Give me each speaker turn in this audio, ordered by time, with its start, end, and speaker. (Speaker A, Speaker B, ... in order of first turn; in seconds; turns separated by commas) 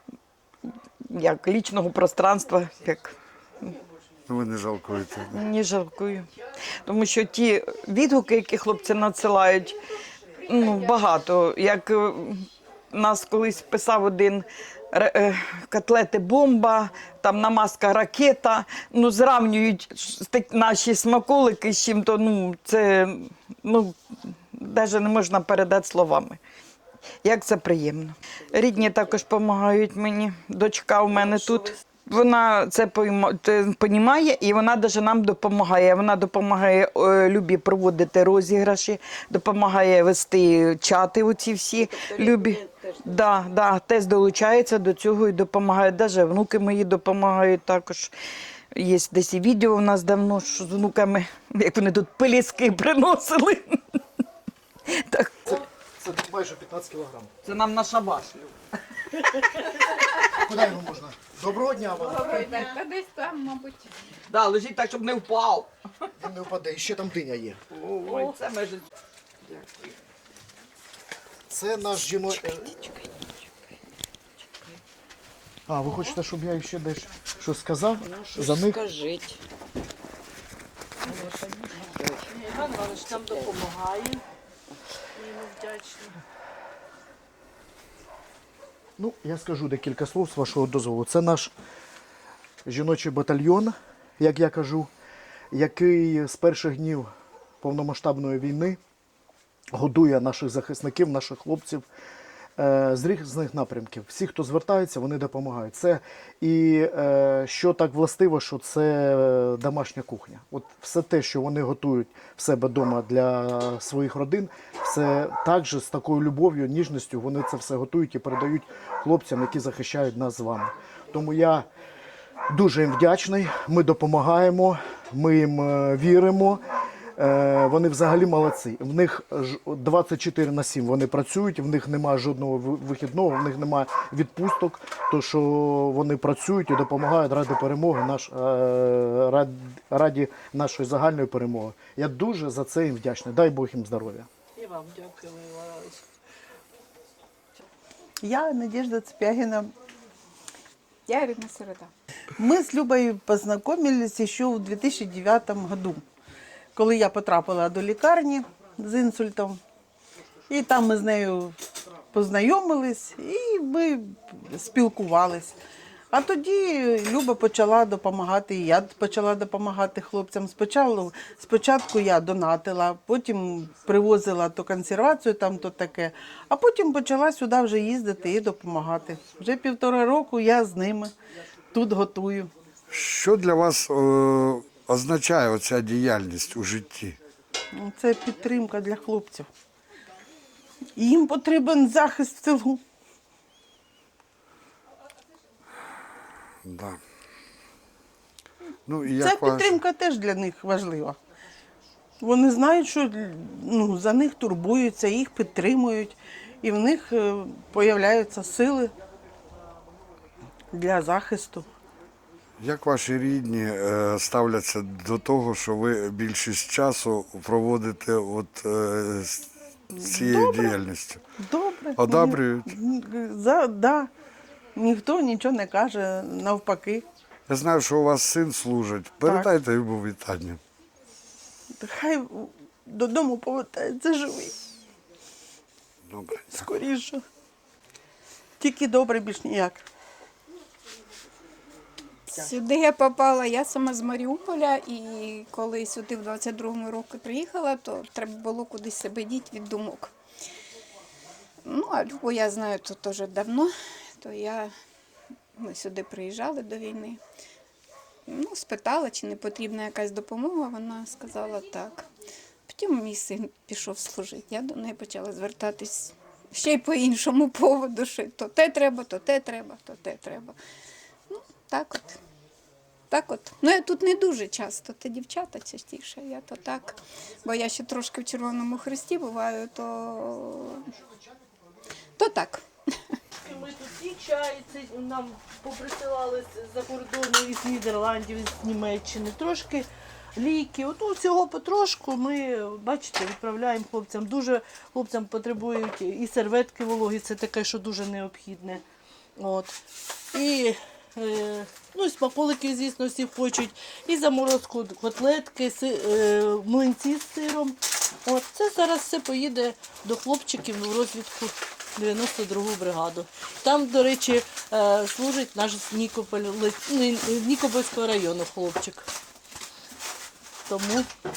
Speaker A: 1.0-3.7, Speaker B: 4.3-5.4, Speaker A: 5.3-6.3, Speaker A: 6.8-9.8, Speaker A: 10.4-26.4, Speaker A: 27.2-48.1, Speaker A: 48.7-54.0, Speaker A: 54.9-55.5, Speaker C: 55.5-57.3, Speaker A: 57.4-58.6, Speaker C: 60.4-62.6, Speaker D: 62.0-63.9, Speaker A: 64.3-65.7, Speaker C: 66.2-67.6, Speaker A: 67.8-68.8, Speaker C: 71.5-72.7, Speaker A: 72.5-73.0, Speaker C: 75.7-78.9, Speaker A: 78.8-79.3, Speaker E: 82.3-84.2, Speaker E: 85.2-86.2, Speaker C: 89.0-91.5, Speaker C: 92.7-94.9, Speaker C: 95.5-97.1, Speaker C: 97.6-98.8, Speaker C: 99.7-101.8, Speaker C: 102.6-121.7, Speaker C: 122.5-126.6, Speaker C: 127.2-144.3, Speaker E: 144.6-146.0, Speaker F: 148.2-149.7, Speaker D: 151.1-151.9, Speaker F: 152.4-156.0, Speaker F: 156.8-159.6, Speaker F: 160.5-161.6, Speaker F: 162.1-165.6, Speaker F: 166.1-181.1, Speaker F: 181.7-182.5, Speaker B: 182.9-187.2, Speaker F: 187.8-189.5, Speaker F: 191.0-192.8, Speaker B: 196.6-197.0, Speaker B: 198.9-199.7, Speaker F: 199.1-201.2, Speaker F: 202.2-208.9, Speaker F: 210.7-211.7, Speaker B: 212.6-221.2, Speaker F: 220.0-220.7, Speaker F: 221.4-224.1, Speaker B: 222.0-222.7, Speaker F: 224.8-227.1, Speaker B: 227.5-230.6, Speaker F: 231.8-234.5, Speaker B: 236.1-236.7, Speaker F: 236.5-237.2, Speaker F: 238.6-239.8, Speaker D: 242.3-250.1, Speaker D: 251.6-254.7, Speaker D: 255.6-257.2, Speaker D: 258.3-262.1, Speaker D: 262.7-270.6, Speaker D: 271.3-272.2, Speaker D: 273.1-280.9, Speaker D: 282.2-282.6, Speaker E: 283.4-298.8, Speaker E: 299.4-299.8, Speaker E: 300.3-319.1, Speaker E: 320.7-321.1